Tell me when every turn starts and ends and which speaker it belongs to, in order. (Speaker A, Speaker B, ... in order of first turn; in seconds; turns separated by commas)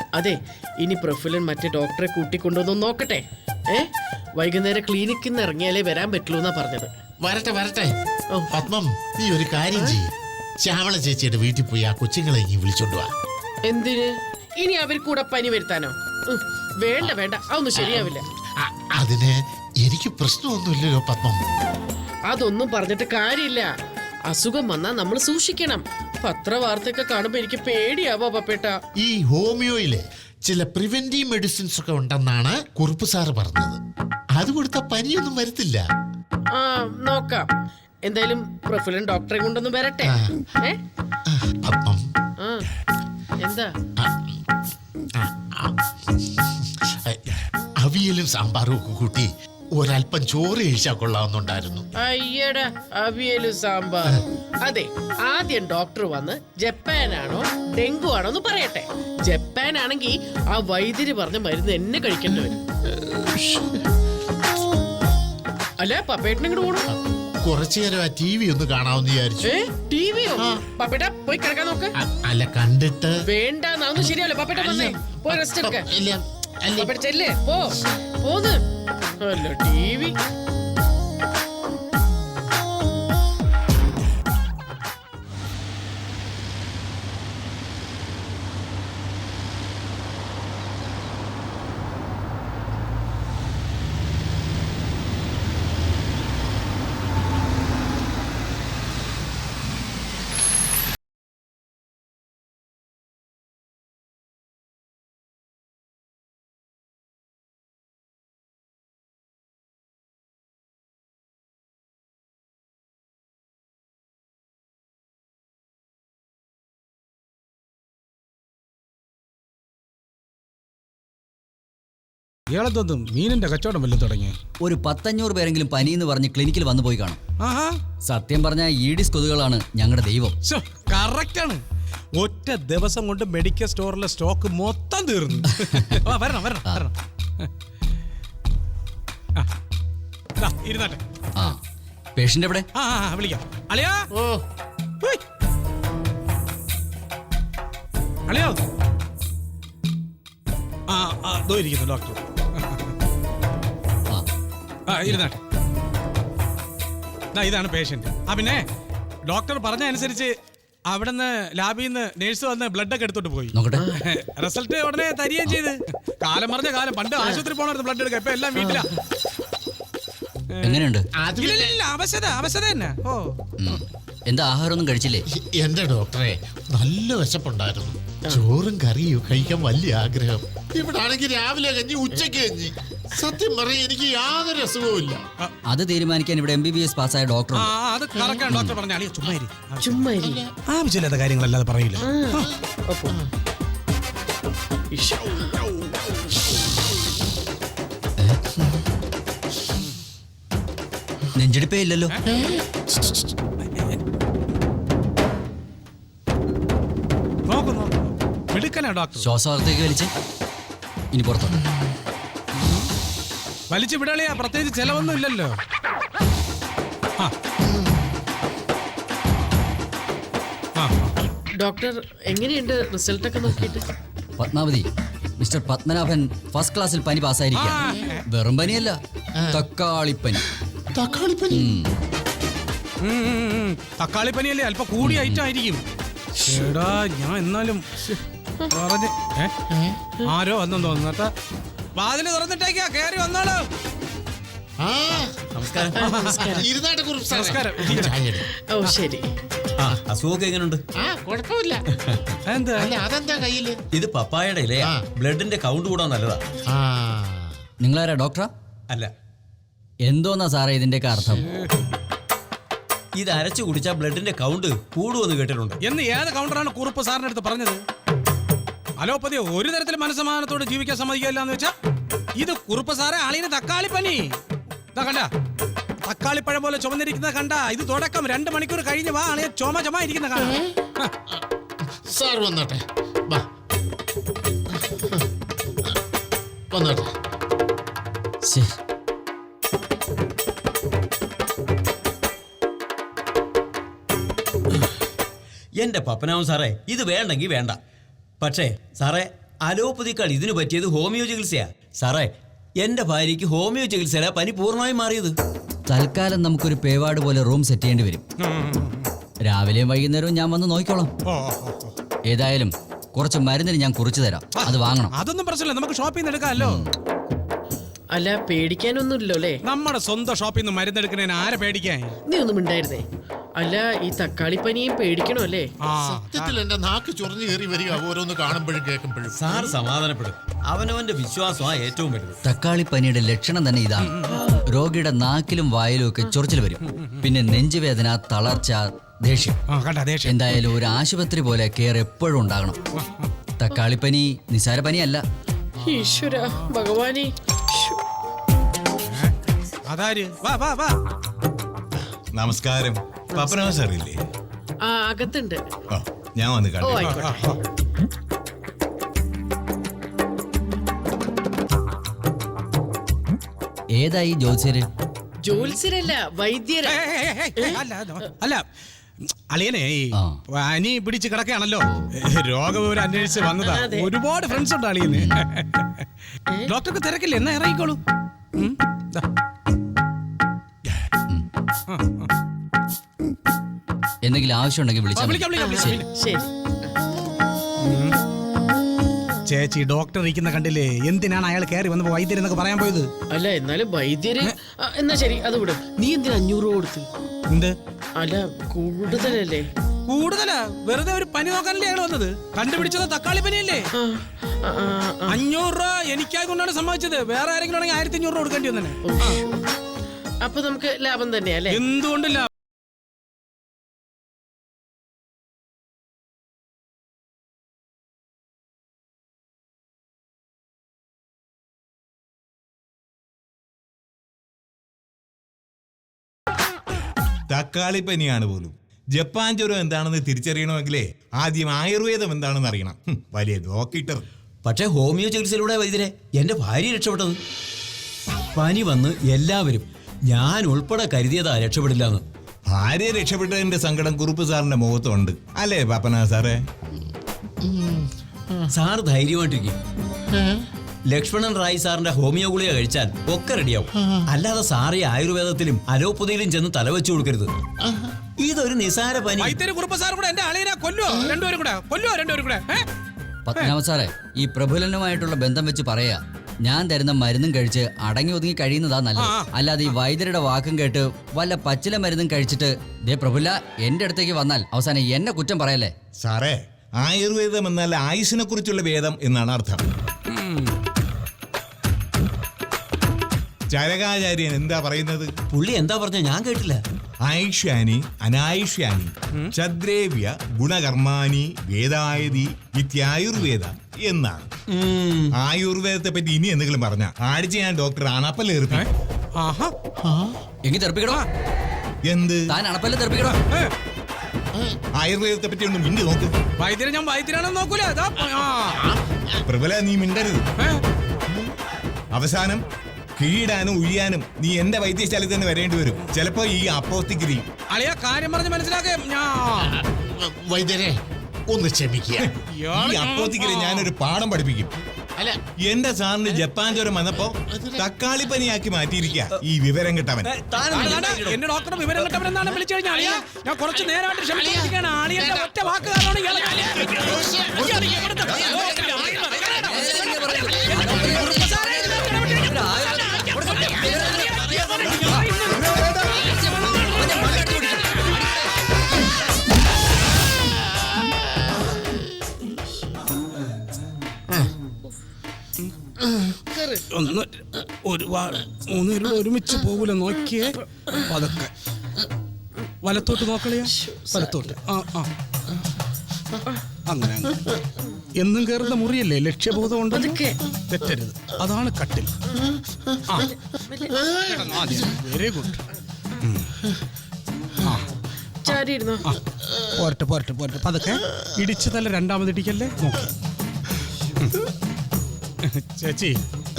Speaker A: 0.1-6.9, Speaker B: 7.2-7.9, Speaker A: 8.3-8.6, Speaker B: 8.5-13.1, Speaker A: 13.7-18.2, Speaker B: 17.8-21.4, Speaker A: 22.3-23.7, Speaker A: 24.3-28.8, Speaker B: 29.0-33.8, Speaker B: 34.4-35.8, Speaker A: 36.5-37.5, Speaker A: 38.0-40.8, Speaker B: 40.0-40.4, Speaker B: 41.3-42.1, Speaker A: 42.4-42.6, Speaker A: 43.4-43.7, Speaker B: 44.0-44.4, Speaker B: 45.1-47.2, Speaker B: 47.8-51.9, Speaker A: 52.0-62.6, Speaker B: 62.9-63.8, Speaker A: 65.8-66.8, Speaker B: 67.4-69.5, Speaker A: 69.4-71.9, Speaker B: 72.0-73.1, Speaker A: 73.3-75.9, Speaker B: 74.5-76.9, Speaker A: 76.8-78.6, Speaker A: 79.2-80.1, Speaker C: 122.5-124.4, Speaker D: 124.6-127.2, Speaker C: 127.4-127.8, Speaker D: 128.0-130.3, Speaker C: 130.4-131.6, Speaker C: 132.2-137.5, Speaker C: 140.4-141.0, Speaker D: 141.3-141.6, Speaker D: 142.2-142.7, Speaker C: 142.7-144.0, Speaker B: 144.1-144.4, Speaker C: 148.3-148.6, Speaker C: 150.9-152.9, Speaker C: 154.9-155.4, Speaker C: 157.3-158.6, Speaker C: 159.3-160.3, Speaker C: 160.9-168.9, Speaker D: 163.5-163.9, Speaker A: 163.8-164.0, Speaker A: 168.6-168.9, Speaker D: 170.6-171.1, Speaker B: 171.2-171.8, Speaker C: 171.4-173.3, Speaker D: 173.6-175.3, Speaker B: 175.3-185.2, Speaker D: 185.7-187.7, Speaker C: 187.5-190.0, Speaker B: 188.1-188.6, Speaker D: 188.5-188.8, Speaker A: 189.8-190.4, Speaker B: 190.1-190.5, Speaker C: 190.7-192.5, Speaker A: 192.0-193.2, Speaker A: 194.9-195.7, Speaker D: 201.3-202.2, Speaker B: 202.2-202.8, Speaker C: 202.9-204.0, Speaker C: 207.5-209.3, Speaker D: 209.2-210.1, Speaker D: 211.1-211.6, Speaker C: 213.7-215.5, Speaker C: 220.8-221.1, Speaker A: 221.5-223.9, Speaker D: 224.4-224.9, Speaker D: 225.4-229.0, Speaker C: 227.5-228.2, Speaker B: 229.4-229.6, Speaker D: 229.5-230.4, Speaker B: 230.7-231.8, Speaker D: 231.5-231.9, Speaker C: 233.0-235.8, Speaker D: 235.0-235.4, Speaker C: 236.4-239.5, Speaker B: 239.7-240.0, Speaker C: 240.2-241.3, Speaker C: 241.9-243.6, Speaker B: 244.8-245.6, Speaker E: 245.6-245.9, Speaker A: 245.9-246.7, Speaker C: 246.0-246.6, Speaker B: 246.4-248.4, Speaker C: 247.3-248.2, Speaker A: 248.4-249.3, Speaker E: 249.8-250.8, Speaker B: 251.0-251.8, Speaker C: 252.4-252.9, Speaker B: 252.8-253.8, Speaker E: 253.9-256.4, Speaker B: 256.7-257.6, Speaker D: 257.8-258.5, Speaker D: 260.0-261.5, Speaker E: 263.1-265.8, Speaker C: 265.8-267.8, Speaker C: 269.0-271.7, Speaker C: 272.4-274.3, Speaker C: 274.9-275.3, Speaker C: 276.0-281.1, Speaker B: 280.4-280.8, Speaker B: 281.9-283.4, Speaker B: 284.7-285.2, Speaker B: 286.7-287.1, Speaker D: 288.4-288.8, Speaker E: 295.8-297.8, Speaker E: 298.4-305.4, Speaker D: 305.9-308.2, Speaker C: 308.4-309.1, Speaker D: 309.4-311.1, Speaker C: 311.3-311.9, Speaker D: 312.3-315.1, Speaker C: 314.6-316.9, Speaker D: 316.6-316.9, Speaker A: 318.1-319.6, Speaker C: 319.6-322.1, Speaker A: 322.3-323.0, Speaker A: 323.6-325.7, Speaker C: 325.8-326.4, Speaker B: 326.0-329.4, Speaker E: 329.4-332.4, Speaker D: 332.4-339.6, Speaker C: 334.0-334.4, Speaker C: 339.7-340.4, Speaker D: 340.2-342.8, Speaker C: 343.0-343.3, Speaker D: 343.6-345.2, Speaker A: 345.8-348.0, Speaker C: 349.1-349.3, Speaker C: 349.9-351.0, Speaker F: 352.3-354.2, Speaker A: 354.8-355.6, Speaker F: 355.9-357.2, Speaker A: 356.8-357.6, Speaker C: 357.0-357.5, Speaker D: 363.9-364.9, Speaker A: 365.4-367.0, Speaker C: 366.9-368.6, Speaker C: 369.2-376.1, Speaker D: 370.1-370.4, Speaker A: 373.3-374.1, Speaker D: 375.1-375.4, Speaker C: 376.7-378.0, Speaker C: 378.6-379.2, Speaker C: 381.9-382.3, Speaker D: 384.2-386.0, Speaker C: 385.1-386.1, Speaker A: 385.5-386.9, Speaker C: 387.8-388.2, Speaker C: 389.4-393.1, Speaker A: 393.3-397.1, Speaker A: 398.2-399.6, Speaker C: 400.1-403.9, Speaker A: 403.9-405.4, Speaker C: 405.3-409.4, Speaker A: 409.1-409.6, Speaker A: 410.4-411.8, Speaker C: 411.7-412.5, Speaker F: 427.5-434.2, Speaker E: 434.6-437.4, Speaker E: 438.6-442.2, Speaker F: 442.7-446.6, Speaker B: 447.6-448.7, Speaker E: 448.7-449.8, Speaker B: 450.3-450.6, Speaker E: 451.1-457.5, Speaker B: 453.9-454.2, Speaker B: 457.8-458.1, Speaker E: 458.4-459.6, Speaker C: 459.4-462.9, Speaker B: 461.1-461.4, Speaker D: 463.4-475.9, Speaker C: 469.2-469.5, Speaker F: 476.2-479.8, Speaker C: 480.3-480.7, Speaker F: 483.7-485.3, Speaker E: 485.5-486.8, Speaker F: 487.2-494.5, Speaker E: 494.7-495.3, Speaker F: 495.4-498.9, Speaker C: 498.7-499.7, Speaker B: 500.0-500.4, Speaker D: 500.6-501.2, Speaker F: 502.0-502.6, Speaker D: 502.5-503.4, Speaker B: 504.5-504.8, Speaker F: 504.9-506.3, Speaker C: 506.6-508.8, Speaker B: 508.7-509.4, Speaker F: 509.5-510.4, Speaker F: 512.1-512.6, Speaker F: 513.2-517.5, Speaker C: 517.7-519.8, Speaker B: 519.7-521.0, Speaker B: 521.5-522.3, Speaker F: 522.2-524.7, Speaker C: 522.6-523.9, Speaker F: 525.6-530.3, Speaker B: 527.5-527.9, Speaker E: 530.2-531.4, Speaker C: 530.7-548.2, Speaker B: 534.3-535.5, Speaker B: 536.9-537.9, Speaker D: 538.6-539.0, Speaker D: 539.7-545.2, Speaker F: 545.5-546.2, Speaker D: 546.0-548.5, Speaker B: 556.0-556.4, Speaker A: 556.5-556.8, Speaker C: 556.9-561.5, Speaker C: 562.8-565.1, Speaker A: 563.7-564.5, Speaker C: 566.9-567.5, Speaker C: 568.1-570.1, Speaker A: 569.9-570.4, Speaker C: 570.7-572.1, Speaker A: 573.2-574.2, Speaker C: 574.1-575.6, Speaker C: 576.2-576.5, Speaker C: 577.6-577.9, Speaker A: 578.4-579.0, Speaker C: 578.5-583.1, Speaker C: 584.2-584.4, Speaker C: 585.4-586.2